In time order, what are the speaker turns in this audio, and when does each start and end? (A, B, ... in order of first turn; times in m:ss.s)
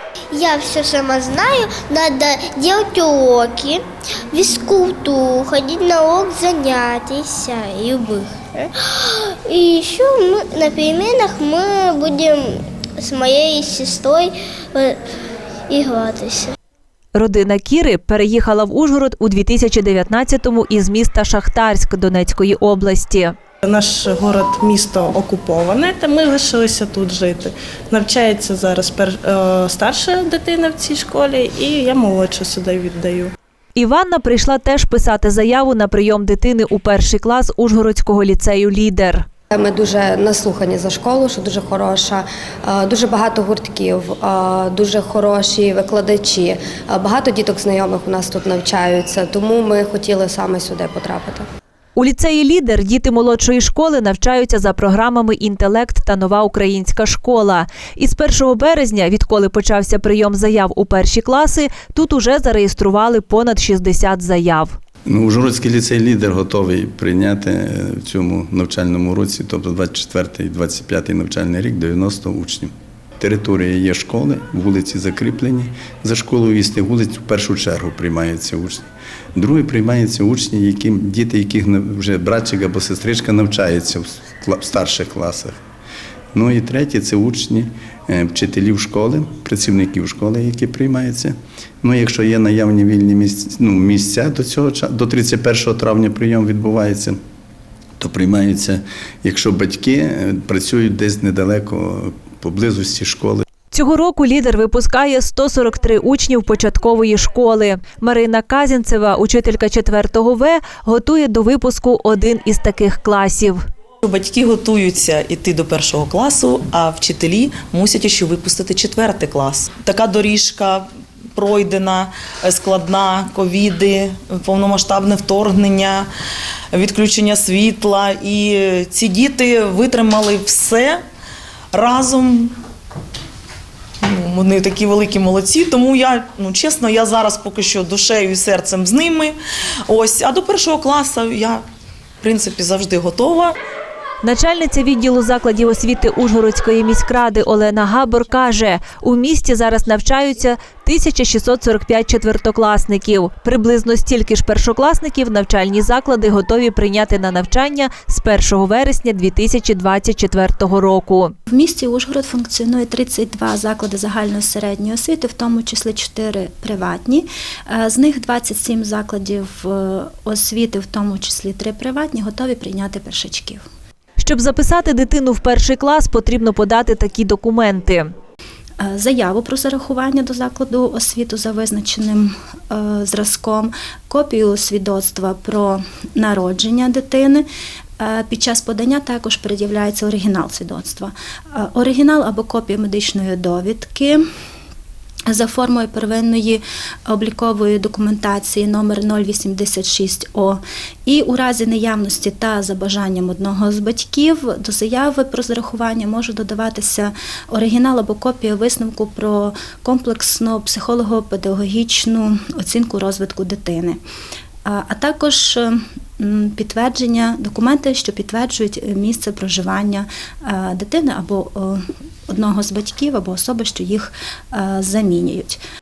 0:00.3-0:15.0 A
0:15.7-0:16.5 A
0:17.1-0:23.3 B
0:23.6-0:33.3 C
0:33.8-0:39.2 B
0:39.5-0:51.4 D
0:52.0-1:04.7 B
1:05.1-1:25.6 E
1:26.3-1:37.2 E
1:38.0-1:43.4 E
1:43.7-1:53.6 B
1:54.0-2:06.1 F
2:06.7-2:11.0 F
2:11.7-2:12.5 F
2:14.0-2:19.4 F
2:19.9-2:21.6 F
2:22.2-2:23.6 F
2:24.2-2:41.3 B
2:41.5-2:53.6 G
2:54.2-2:58.1 B
2:58.8-3:07.4 G
3:08.0-3:14.2 G
3:15.3-3:34.0 G
3:34.6-3:45.6 G